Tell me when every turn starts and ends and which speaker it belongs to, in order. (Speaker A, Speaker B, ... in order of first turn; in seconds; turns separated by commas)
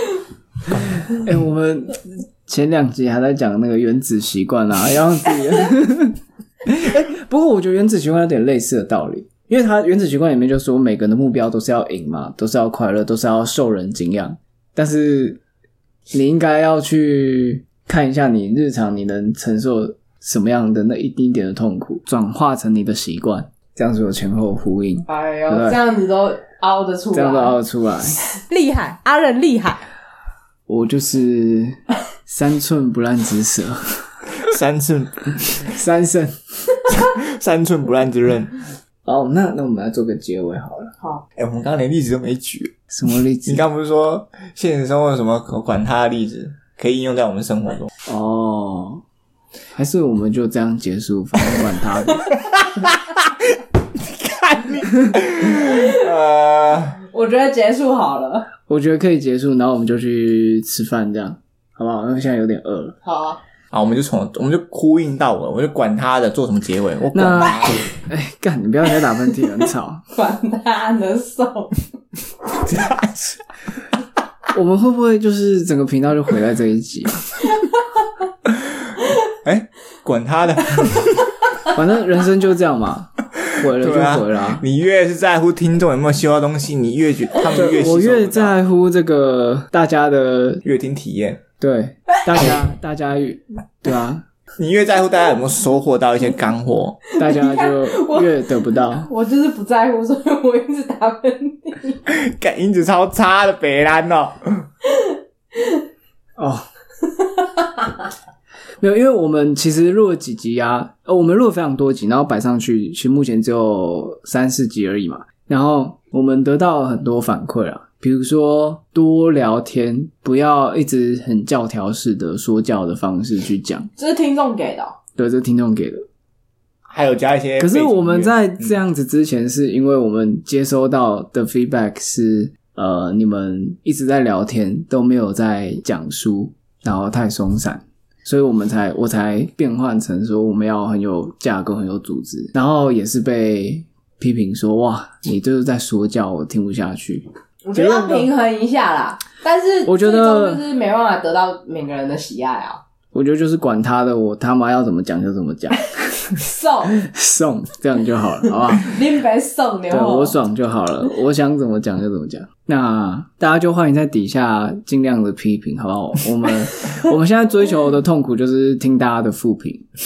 Speaker A: 1.1-15.4, Speaker A: 16.1-25.8, Speaker B: 25.1-27.6, Speaker A: 27.1-28.2, Speaker B: 28.2-29.8, Speaker A: 30.7-34.1, Speaker C: 34.4-35.7, Speaker A: 35.6-36.4, Speaker C: 36.9-38.6, Speaker A: 39.0-40.9, Speaker C: 41.4-42.8, Speaker A: 42.9-43.6, Speaker C: 43.5-47.9, Speaker A: 48.0-49.0, Speaker A: 49.7-52.2, Speaker C: 52.5-53.3, Speaker C: 54.0-57.0, Speaker B: 55.6-55.9, Speaker B: 57.1-58.5, Speaker A: 58.7-63.0, Speaker B: 63.0-63.4, Speaker C: 63.7-67.8, Speaker A: 67.1-70.0, Speaker B: 70.1-71.8, Speaker C: 72.6-73.4, Speaker A: 74.5-77.2, Speaker C: 79.4-81.3, Speaker A: 81.7-84.6, Speaker C: 83.6-88.5, Speaker A: 87.5-90.6, Speaker C: 90.6-91.4, Speaker A: 91.6-94.2, Speaker C: 94.6-97.0, Speaker B: 97.1-102.0, Speaker A: 97.2-99.1, Speaker C: 102.1-104.7, Speaker A: 106.4-106.6, Speaker A: 108.8-123.9, Speaker B: 124.0-125.0, Speaker A: 125.2-126.0, Speaker C: 126.9-128.8, Speaker A: 127.6-148.3, Speaker B: 147.6-152.8, Speaker A: 149.8-150.6, Speaker A: 153.1-159.0, Speaker B: 156.4-156.9, Speaker B: 158.8-160.3, Speaker A: 159.9-169.9